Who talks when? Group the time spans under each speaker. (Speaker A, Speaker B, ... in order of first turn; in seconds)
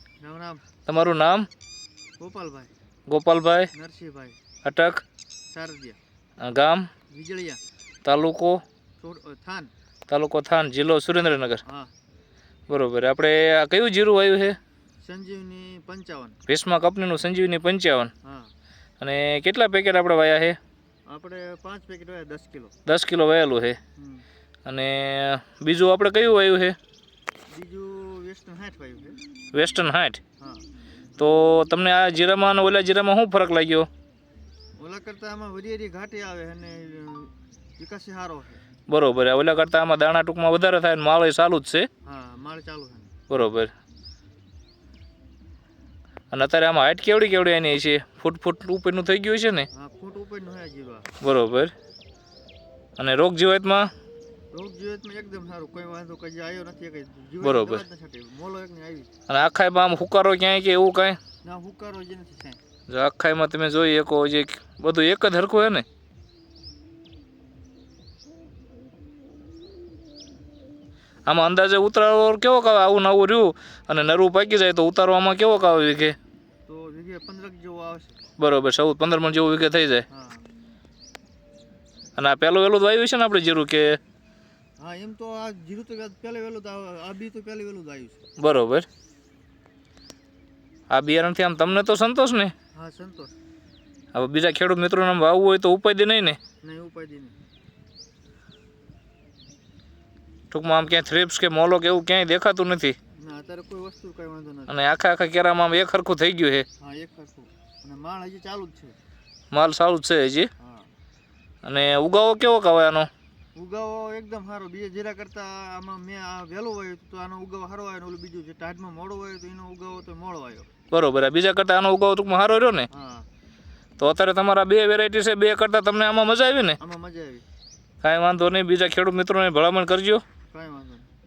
Speaker A: 0.2-0.6, 2.2-2.7, 3.7-4.4, 5.5-6.0, 7.1-7.6, 9.0-9.7, 11.7-11.9, 15.0-16.4, 18.2-18.5, 21.1-22.7, 24.0-24.2, 27.5-29.2, 30.4-30.6, 34.8-38.6, 42.0-43.1, 49.7-51.1, 54.5-59.1, 61.4-62.6, 76.7-78.2, 80.1-80.4, 84.8-88.2, 92.7-93.3, 96.6-97.3, 103.2-104.8, 106.8-109.0, 110.6-110.9, 113.5-120.7, 122.9-123.3, 126.8-127.4, 130.5-131.1
Speaker B: 0.8-1.5, 3.1-3.7, 4.6-5.0, 6.4-6.9, 8.0-8.6, 10.1-11.6, 12.7-14.6, 16.5-18.1, 19.0-20.6, 22.9-23.8, 24.6-26.8, 29.5-30.2, 31.2-33.9, 38.9-41.9, 43.3-43.7, 46.3-49.7, 51.2-51.7, 53.0-53.9, 57.4-57.8, 59.3-61.2, 62.9-65.8, 71.2-76.2, 78.4-80.0, 82.2-84.0, 88.4-88.8, 90.9-92.5, 94.1-96.4, 100.5-103.0, 104.7-106.7, 109.5-110.5, 111.6-113.1, 120.9-122.9, 124.0-126.8, 128.0-130.2